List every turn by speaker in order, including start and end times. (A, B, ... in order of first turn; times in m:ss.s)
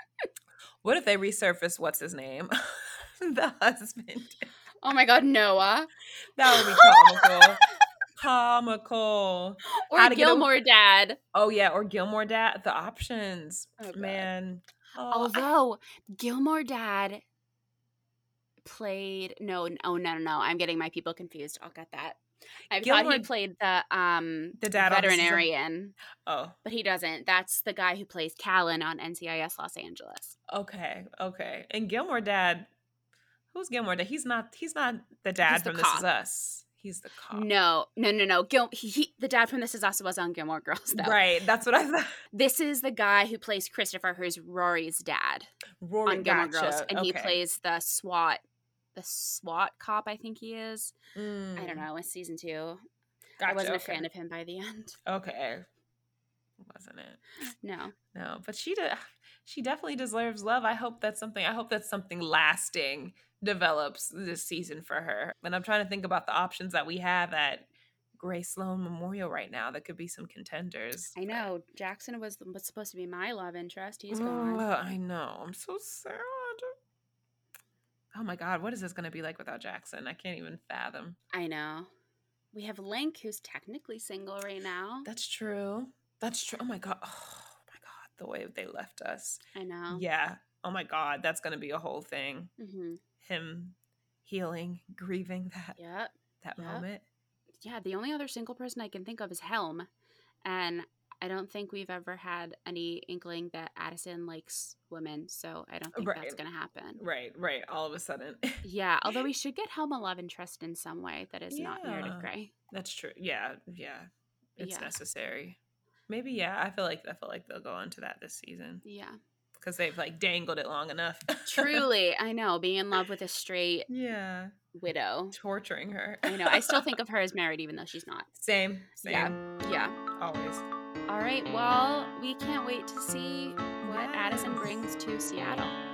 0:00.8-0:04.5 A
0:04.8-0:05.9 B
0:06.4-0:07.6 A
0:06.5-0:07.6 B
0:08.2-0:10.5 A
0:09.8-0:11.2 B
0:11.3-0:15.5 A
0:13.8-0:14.3 B
0:15.1-0:17.2 B
0:18.6-0:22.2 B
0:22.7-0:26.0 B
0:22.7-0:23.3 A
0:24.6-0:25.5 A
0:26.3-0:26.6 A
0:26.6-0:30.4 B
0:30.5-0:32.7 A
0:33.5-0:37.5 A
0:35.4-0:36.1 B
0:37.3-0:41.2 B
0:40.9-0:42.1 A
0:42.3-0:45.5 B
0:45.8-0:47.4 A
0:46.1-0:48.4 B
0:49.0-0:50.9 B
0:51.2-0:51.8 A
0:51.6-0:52.8 B
0:53.4-0:54.1 A
0:53.4-0:55.0 B
0:55.1-0:55.6 A
0:56.6-0:57.2 A
0:57.6-0:58.0 B
0:58.1-1:11.5 A
1:11.2-1:14.7 B
1:14.1-1:16.7 A
1:18.2-1:21.2 A
1:21.3-1:21.9 B
1:22.5-1:25.1 B
1:25.1-1:32.5 A
1:29.5-1:30.1 B
1:32.6-1:33.0 B
1:33.2-1:35.8 A
1:35.8-1:36.9 B
1:36.4-1:37.0 A
1:37.6-1:39.9 B
1:40.4-1:47.0 B
1:45.9-1:46.4 A
1:47.0-1:49.3 A
1:48.6-1:52.5 B
1:51.5-1:58.8 A
1:54.6-1:55.0 B
1:58.8-1:59.2 B
1:59.6-2:01.8 A
2:01.5-2:03.9 B
2:03.9-2:04.5 A
2:04.8-2:05.4 B
2:05.3-2:06.8 A
2:06.3-2:08.3 B
2:08.4-2:09.4 A
2:09.0-2:09.9 B
2:10.2-2:10.7 A
2:11.1-2:15.8 B
2:13.8-2:14.8 A